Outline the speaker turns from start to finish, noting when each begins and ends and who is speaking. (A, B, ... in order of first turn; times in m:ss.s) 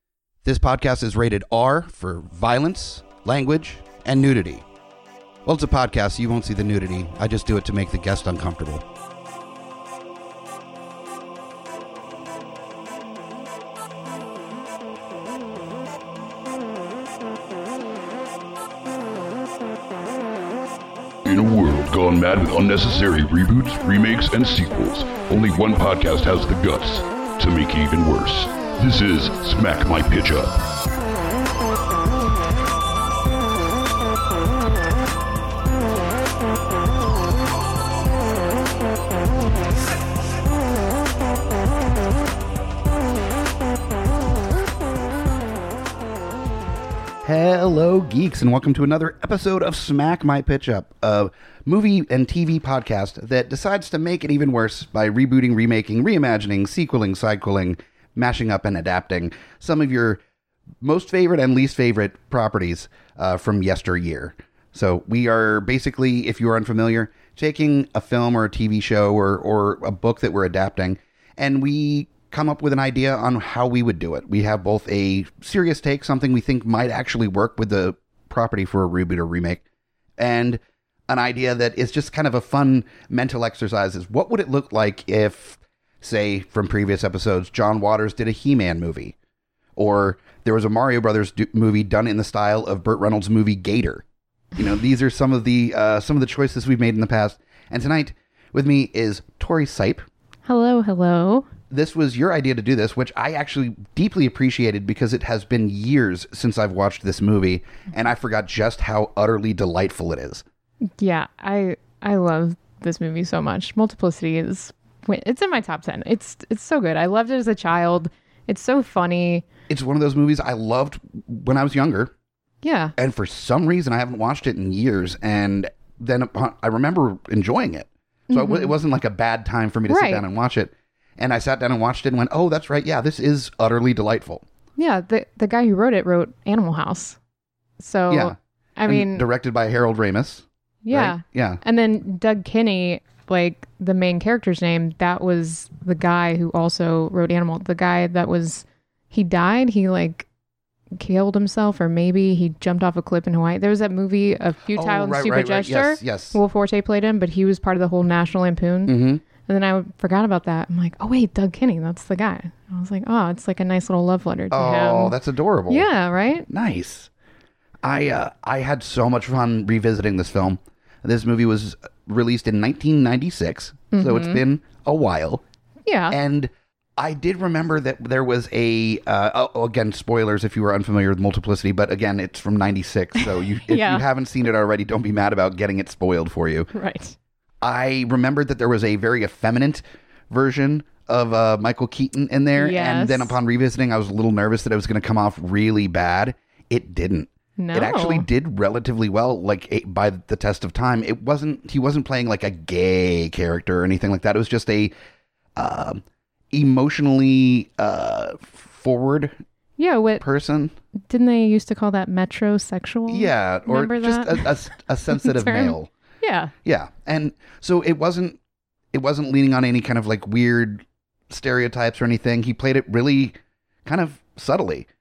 0:00.4-0:04.6 A
0:05.4-0:08.8 A
0:21.2-0:30.6 B
0:47.2-1:00.2 A
1:00.8-1:19.6 A
1:20.2-1:29.2 A
1:29.8-1:34.0 A
1:34.6-1:40.1 A
1:40.4-1:41.5 C
1:41.7-1:50.4 A
1:50.9-1:59.4 C
1:59.7-2:02.1 A
2:02.6-2:03.0 C
2:03.0-2:14.4 A
2:08.3-2:08.7 C
2:09.9-2:10.2 C
2:14.8-2:17.2 C
2:17.8-2:19.3 C
2:18.1-2:18.4 A
2:18.9-2:21.6 A
2:20.8-2:30.3 C
2:30.9-2:45.2 C
2:34.7-2:36.4 A
2:38.9-2:39.2 A
2:44.5-2:45.9 A
2:45.7-2:46.5 C
2:46.5-2:47.1 A
2:47.8-2:55.4 A
2:53.9-2:54.4 C
2:55.9-2:56.2 C
2:56.1-3:06.7 A
3:03.2-3:04.0 C
3:06.7-3:07.2 C
3:07.6-3:24.9 A
3:12.6-3:13.4 C
3:17.6-3:18.3 C
3:25.6-3:29.4 A
3:29.8-3:30.2 C
3:30.2-3:30.8 A
3:31.1-3:34.5 C
3:33.1-3:35.9 A
3:35.1-3:36.5 C
3:36.6-3:38.4 A
3:38.9-3:44.9 A